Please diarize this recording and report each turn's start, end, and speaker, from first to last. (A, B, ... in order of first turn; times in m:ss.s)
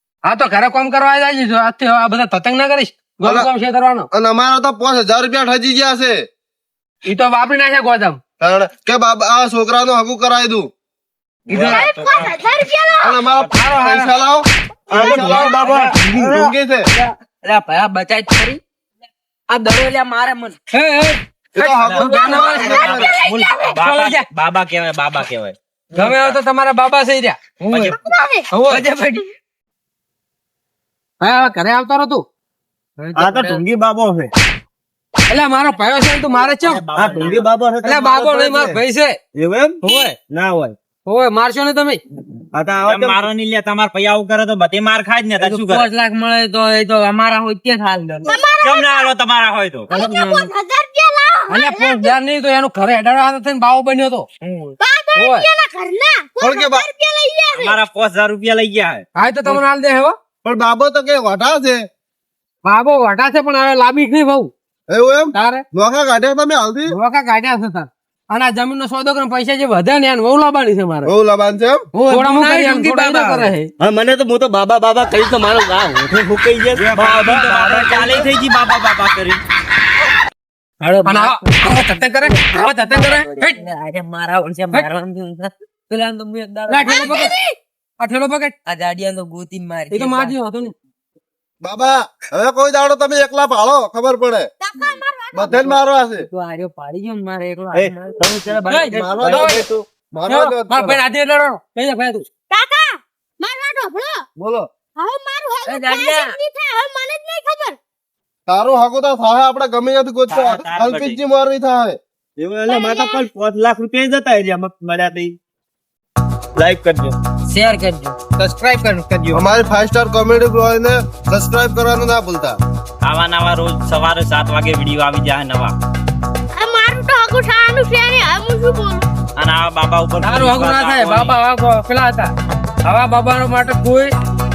0:00.2-0:04.1 A
0:03.2-0:03.5 B
0:04.1-0:06.2 B
0:07.0-0:08.2 A
0:08.4-0:10.7 B
0:11.5-0:12.3 C
0:11.5-0:11.8 A
0:11.7-0:13.2 D
0:13.0-0:16.8 B
0:13.4-0:14.1 A
0:14.9-0:15.9 C
0:15.0-0:18.6 E
0:19.5-0:20.6 E
0:20.7-0:22.9 A
0:21.5-0:23.1 B
0:22.0-0:26.3 C
0:22.6-0:23.5 D
0:23.8-0:24.3 A
0:25.9-0:26.2 E
0:25.9-0:27.6 A
0:27.6-0:28.0 E
0:27.7-0:28.0 C
0:27.9-0:28.5 D
0:28.5-0:28.9 A
0:28.7-0:29.2 E
0:31.2-0:32.2 A
0:33.0-0:33.6 E
0:33.2-0:33.6 F
0:33.2-0:34.3 C
0:35.3-0:36.8 A
0:36.6-0:37.5 C
0:37.0-0:38.8 F
0:37.8-0:39.2 A
0:39.3-0:40.8 F
0:39.9-0:40.1 A
0:41.0-0:42.0 A
0:42.5-0:43.3 F
0:42.8-0:45.8 C
0:45.4-0:48.4 E
0:48.2-0:49.1 D
0:48.6-0:49.9 C
0:49.9-0:52.1 D
0:49.9-0:50.5 E
0:51.5-0:54.3 A
0:54.4-0:54.8 E
0:54.8-0:57.8 D
0:55.2-0:55.5 A
0:56.4-0:56.9 B
0:57.5-0:59.0 C
0:59.2-1:00.2 A
1:00.4-1:01.8 B
1:02.6-1:04.5 A
1:04.9-1:06.9 B
1:05.3-1:05.6 A
1:06.9-1:11.1 A
1:11.0-1:11.8 B
1:11.9-1:13.7 A
1:12.1-1:13.5 E
1:13.8-1:18.3 F
1:16.8-1:19.4 C
1:20.8-1:27.3 E
1:21.0-1:23.6 A
1:26.7-1:28.5 A
1:26.8-1:27.4 D
1:28.6-1:30.3 E
1:29.9-1:30.7 A
1:31.6-1:34.5 B
1:34.6-1:35.5 D
1:35.3-1:36.3 B
1:35.5-1:38.8 E
1:37.7-1:39.8 F
1:38.6-1:39.6 A
1:38.9-1:41.0 B
1:40.3-1:42.3 A
1:42.5-1:44.2 D
1:44.4-1:44.6 B
1:45.0-1:47.8 D
1:45.6-1:46.4 E
1:48.5-1:52.0 B
1:50.3-1:51.2 C
1:52.4-1:55.4 F
1:52.7-1:53.3 D
1:56.6-1:57.2 F
1:57.4-1:58.2 E
1:58.4-1:59.3 A
1:59.3-2:02.6 B
2:03.0-2:05.7 C
2:06.6-2:09.0 D
2:09.4-2:11.4 C
2:10.2-2:12.3 A
2:12.8-2:14.1 A